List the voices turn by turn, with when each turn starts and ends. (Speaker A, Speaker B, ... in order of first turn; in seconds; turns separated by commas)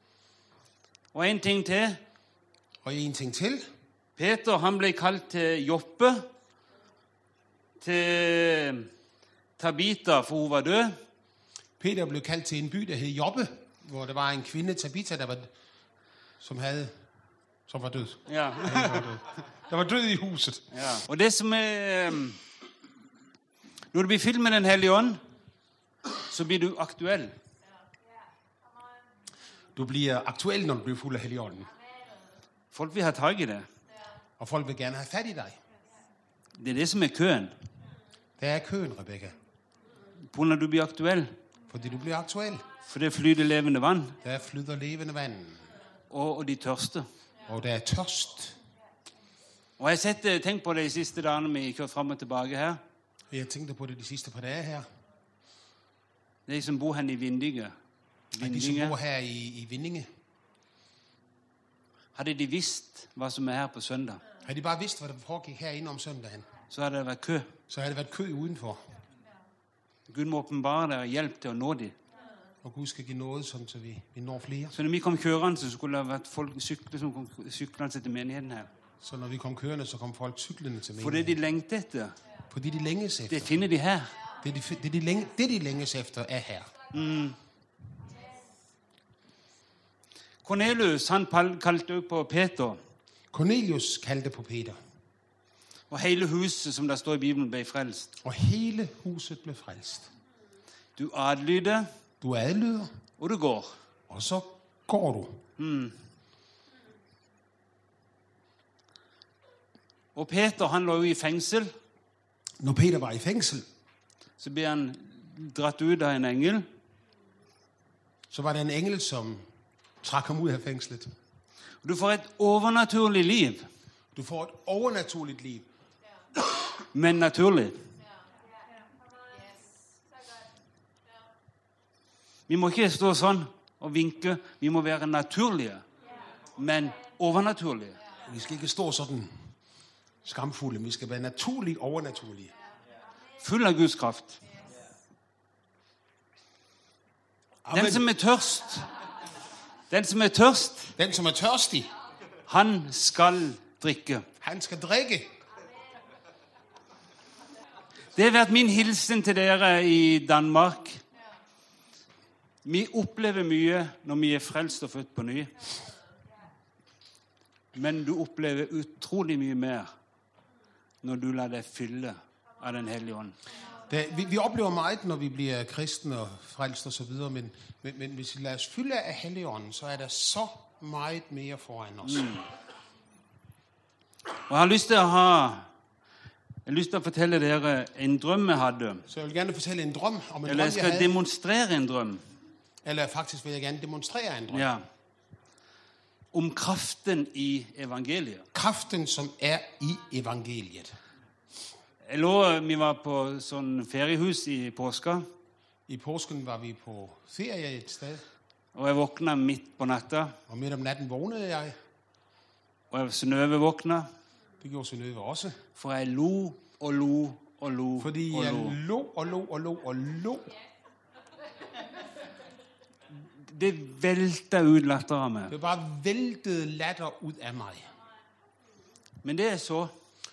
Speaker A: 1.1-2.0, Speaker B: 2.8-3.6, Speaker A: 4.2-6.3, Speaker A: 7.8-8.9, Speaker A: 9.6-11.0, Speaker B: 11.8-15.5, Speaker B: 16.4-16.9, Speaker B: 17.7-20.7, Speaker A: 18.3-19.1, Speaker A: 20.7-22.4, Speaker A: 23.9-25.2, Speaker A: 26.3-27.3, Speaker B: 29.7-31.7, Speaker A: 32.7-33.7, Speaker B: 34.4-35.6, Speaker A: 36.5-37.5, Speaker B: 38.4-39.4, Speaker A: 40.3-41.3, Speaker B: 41.7-42.7, Speaker A: 42.9-44.2, Speaker B: 44.2-45.7, Speaker A: 46.1-47.1, Speaker B: 47.4-48.5, Speaker A: 49.8-52.8, Speaker B: 53.3-54.9, Speaker A: 56.5-57.7, Speaker A: 58.3-58.9, Speaker B: 58.4-60.1, Speaker A: 62.1-64.2, Speaker B: 64.4-66.5, Speaker A: 66.7-67.5, Speaker B: 67.7-68.8, Speaker A: 70.1-72.0, Speaker B: 72.6-74.7, Speaker A: 74.7-78.7, Speaker B: 79.0-81.3, Speaker A: 81.0-82.2, Speaker B: 82.5-83.6, Speaker A: 83.3-84.2, Speaker B: 84.4-86.7, Speaker A: 86.9-87.4, Speaker A: 90.4-92.8, Speaker B: 93.3-94.8, Speaker A: 95.9-98.1, Speaker B: 98.2-100.1, Speaker A: 101.0-101.9, Speaker B: 102.2-102.9, Speaker A: 103.2-103.7, Speaker B: 104.1-105.4, Speaker A: 105.6-106.0, Speaker A: 110.1-111.7, Speaker B: 112.6-113.7, Speaker A: 114.4-116.7, Speaker B: 118.3-119.4, Speaker B: 120.0-121.1, Speaker A: 121.8-123.7, Speaker B: 124.1-125.7, Speaker A: 126.9-127.8, Speaker A: 132.5-135.8, Speaker A: 136.5-138.0, Speaker B: 138.2-139.4, Speaker B: 140.2-142.5, Speaker A: 143.4-144.4, Speaker B: 147.6-148.1, Speaker A: 147.7-148.9, Speaker A: 149.9-150.9, Speaker B: 151.0-151.9, Speaker A: 152.5-154.3, Speaker B: 154.4-155.3, Speaker A: 158.1-161.0, Speaker A: 162.6-165.5, Speaker A: 167.7-169.9, Speaker A: 171.0-173.4, Speaker B: 173.9-182.4, Speaker A: 182.0-182.4, Speaker A: 184.5-185.7, Speaker A: 186.7-189.1, Speaker B: 189.1-191.2, Speaker A: 190.4-192.2, Speaker B: 192.8-194.7, Speaker A: 194.5-194.8, Speaker A: 196.3-198.5, Speaker B: 198.5-200.9, Speaker A: 202.0-205.3, Speaker B: 205.9-208.2, Speaker A: 208.7-210.3, Speaker B: 210.5-211.8, Speaker A: 212.9-214.1, Speaker B: 214.6-215.6, Speaker A: 215.7-218.8, Speaker B: 218.0-220.6, Speaker A: 223.3-225.5, Speaker B: 225.5-227.9, Speaker A: 229.2-229.9